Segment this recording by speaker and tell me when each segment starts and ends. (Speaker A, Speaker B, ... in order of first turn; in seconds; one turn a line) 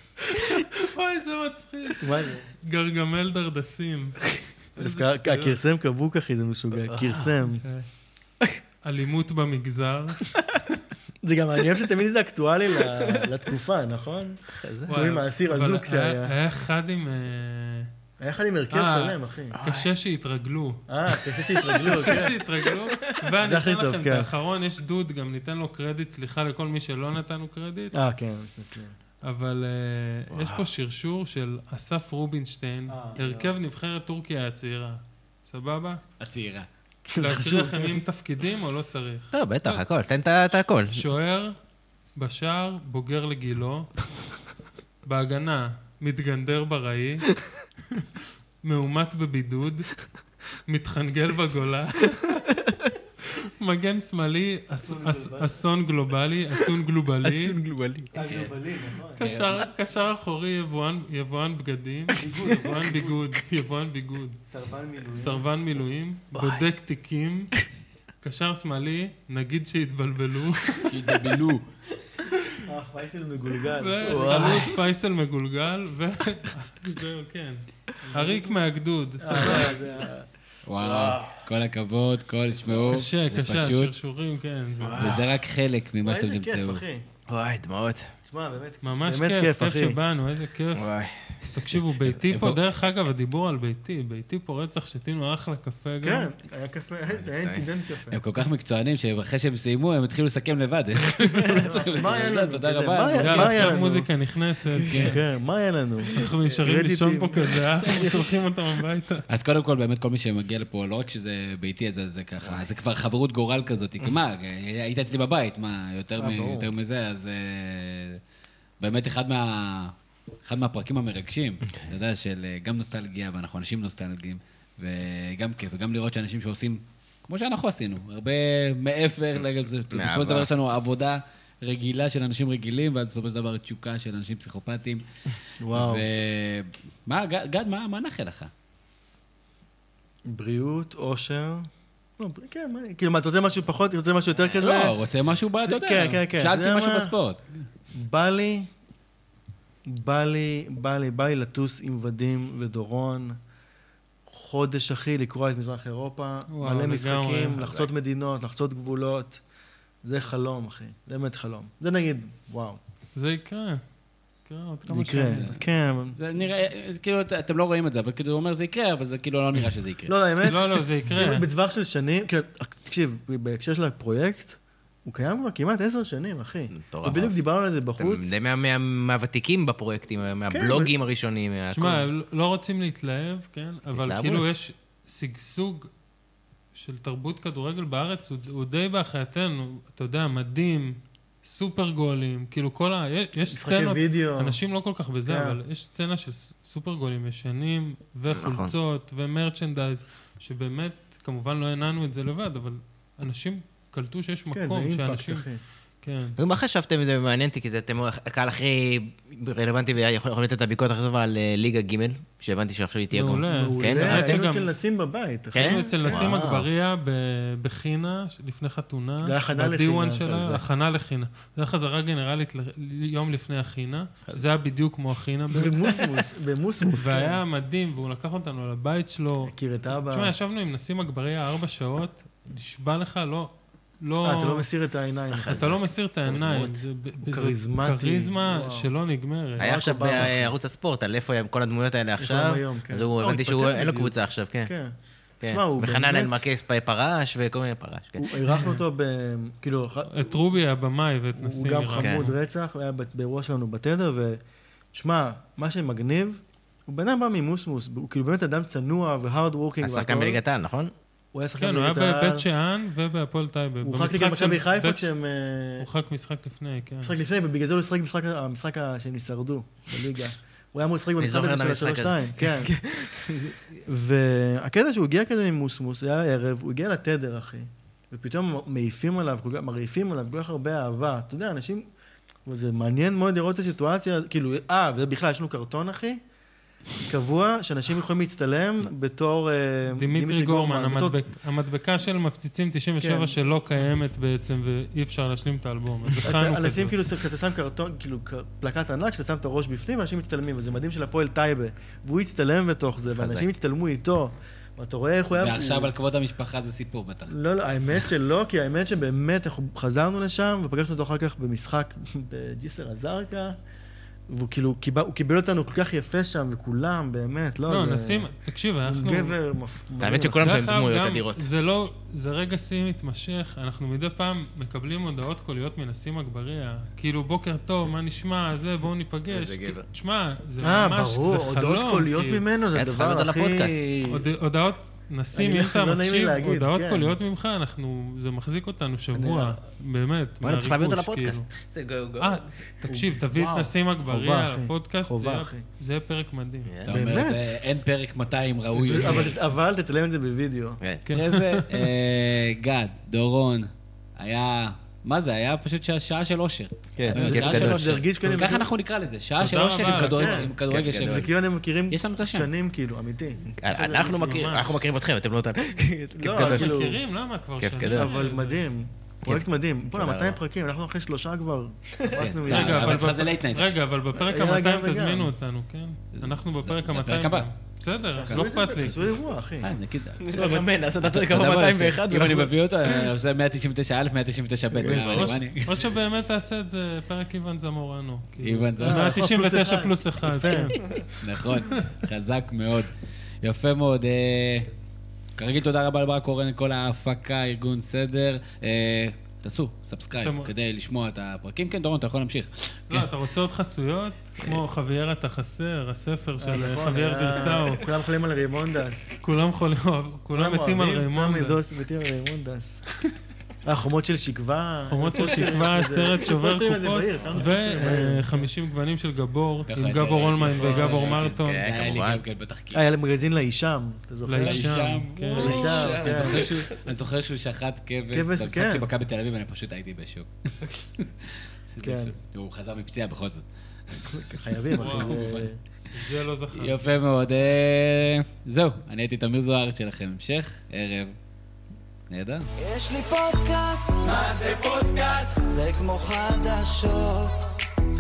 Speaker A: 0.4-5.6
Speaker B: 2.0-2.5
Speaker B: 4.8-7.7
Speaker C: 6.8-7.3
Speaker A: 8.8-10.3
Speaker B: 11.2-16.3
Speaker C: 14.6-14.9
Speaker A: 14.9-17.9
Speaker B: 18.2-19.6
Speaker A: 18.7-20.8
Speaker C: 19.6-19.9
Speaker B: 20.9-22.4
Speaker A: 21.7-27.9
Speaker C: 22.7-23.1
Speaker B: 23.4-24.3
Speaker B: 27.9-28.9
Speaker A: 29.2-36.0
Speaker C: 30.3-30.7
Speaker B: 32.9-33.6
Speaker D: 36.2-36.7
Speaker B: 37.1-38.0
Speaker A: 37.2-39.8
Speaker C: 39.3-41.0
Speaker A: 40.9-41.5
Speaker A: 42.2-44.0
Speaker A: 45.1-47.4
Speaker A: 48.6-50.0
Speaker A: 50.5-52.5
Speaker A: 53.4-57.6
Speaker B: 54.8-55.6
Speaker C: 57.2-58.2
Speaker B: 58.1-59.2
Speaker D: 58.2-58.5
Speaker D: 59.2-59.7
Speaker A: 59.2-64.4
Speaker B: 62.2-63.2
Speaker B: 64.5-65.5
Speaker A: 65.1-67.5
Speaker C: 66.3-66.7
Speaker A: 68.2-70.9
Speaker D: 70.8-71.6
Speaker B: 72.6-74.8
Speaker A: 73.7-79.8
Speaker C: 74.1-74.8
Speaker B: 78.1-78.5
Speaker B: 79.2-80.3
Speaker D: 80.7-83.9
Speaker C: 80.8-81.4
Speaker A: 82.9-85.2
Speaker C: 84.8-85.3
Speaker D: 85.0-86.8
Speaker B: 86.0-87.0
Speaker C: 87.3-88.1
Speaker B: 88.2-90.0
Speaker A: 88.8-96.3
Speaker C: 90.7-91.8
Speaker D: 92.2-92.6
Speaker B: 96.0-98.2
Speaker C: 97.3-97.6
Speaker D: 98.1-103.8
Speaker B: 101.5-104.1
Speaker A: 103.2-105.2
Speaker D: 104.8-105.2
Speaker B: 104.9-108.4
Speaker A: 106.1-109.3
Speaker D: 109.3-118.2
Speaker B: 116.2-116.7
Speaker D: 118.8-135.0
Speaker C: 129.9-130.5
Speaker B: 135.6-136.1
Speaker D: 135.7-138.5
Speaker B: 140.3-145.0
Speaker C: 144.4-144.8
Speaker D: 144.6-147.7
Speaker B: 145.6-147.2
Speaker B: 147.9-148.7
Speaker B: 149.8-153.4
Speaker B: 154.3-159.4
Speaker A: 156.5-157.6
Speaker C: 157.6-157.9
Speaker B: 160.0-162.8
Speaker A: 163.2-163.8
Speaker A: 164.5-165.5
Speaker B: 164.9-166.2
Speaker D: 165.3-165.6
Speaker D: 166.1-170.1
Speaker B: 170.1-178.3
Speaker A: 170.4-171.5
Speaker C: 176.7-177.3
Speaker C: 178.0-182.1
Speaker B: 180.5-180.9
Speaker A: 181.7-185.9
Speaker C: 183.9-184.4
Speaker A: 186.7-205.5
Speaker B: 193.5-194.6
Speaker B: 195.2-195.6
Speaker C: 198.3-198.7
Speaker B: 204.5-205.6
Speaker A: 206.0-206.4
Speaker C: 206.4-214.4
Speaker A: 213.1-214.7
Speaker B: 213.5-216.4
Speaker C: 215.5-216.7
Speaker A: 215.6-226.1
Speaker B: 219.2-220.6
Speaker B: 225.5-227.4
Speaker A: 226.9-229.5
Speaker B: 229.4-230.3
Speaker A: 230.1-234.7
Speaker B: 234.2-235.7
Speaker C: 235.3-236.8
Speaker A: 235.5-240.3
Speaker B: 237.2-238.9
Speaker B: 239.6-240.5
Speaker C: 239.6-244.7
Speaker B: 242.2-246.4
Speaker C: 245.4-248.4
Speaker B: 248.2-250.4
Speaker A: 250.1-252.3
Speaker B: 251.4-254.4
Speaker B: 254.9-260.4
Speaker C: 259.8-260.9
Speaker B: 261.3-262.5
Speaker A: 261.6-265.1
Speaker B: 263.8-265.9
Speaker A: 265.8-267.2
Speaker B: 267.0-272.7
Speaker C: 271.2-273.6
Speaker B: 273.9-281.9
Speaker B: 282.5-286.2
Speaker B: 287.0-291.2
Speaker A: 289.9-297.0
Speaker B: 293.0-293.4
Speaker B: 296.2-305.9
Speaker C: 303.1-303.5
Speaker D: 305.3-307.3
Speaker B: 307.3-313.6
Speaker B: 314.3-318.3
Speaker A: 317.7-319.4
Speaker B: 318.9-320.6
Speaker C: 320.0-321.4
Speaker A: 320.4-332.4
Speaker C: 329.3-329.9
Speaker B: 330.6-334.2
Speaker C: 332.7-333.9
Speaker A: 334.1-341.5
Speaker B: 335.4-337.2
Speaker B: 339.1-339.6
Speaker C: 340.4-342.4
Speaker A: 342.2-346.7
Speaker B: 342.9-345.6
Speaker D: 346.9-349.4
Speaker B: 346.9-347.6
Speaker B: 348.8-350.8
Speaker A: 351.1-351.9
Speaker D: 351.1-361.3
Speaker C: 357.0-357.9
Speaker B: 357.1-358.7
Speaker A: 357.2-357.4
Speaker A: 359.4-360.5
Speaker B: 359.9-364.6
Speaker C: 360.6-361.3
Speaker D: 361.9-362.5
Speaker C: 363.5-366.8
Speaker A: 364.0-364.8
Speaker B: 366.2-367.0
Speaker A: 366.3-368.6
Speaker C: 367.6-368.1
Speaker B: 367.9-373.0
Speaker C: 369.2-370.4
Speaker D: 372.2-373.8
Speaker A: 372.5-379.1
Speaker B: 374.1-375.3
Speaker D: 376.1-377.5
Speaker B: 378.2-379.7
Speaker D: 379.6-385.8
Speaker C: 380.2-382.5
Speaker B: 384.7-385.4
Speaker A: 384.8-391.0
Speaker D: 388.4-389.1
Speaker B: 388.8-390.8
Speaker D: 391.1-394.7
Speaker D: 395.4-403.1
Speaker A: 400.2-400.5
Speaker A: 402.9-407.9
Speaker B: 406.4-409.1
Speaker A: 409.2-411.6
Speaker B: 410.3-412.8
Speaker B: 413.6-418.5
Speaker A: 414.9-421.6
Speaker D: 419.7-422.8
Speaker C: 420.6-422.2
Speaker B: 422.7-426.5
Speaker A: 424.3-426.0
Speaker D: 424.4-435.5
Speaker C: 425.4-426.9
Speaker B: 428.1-428.9
Speaker B: 431.8-432.1
Speaker B: 434.1-435.6
Speaker A: 434.8-435.2
Speaker A: 435.9-436.9
Speaker D: 436.5-441.1
Speaker D: 442.1-442.5
Speaker E: 442.6-447.4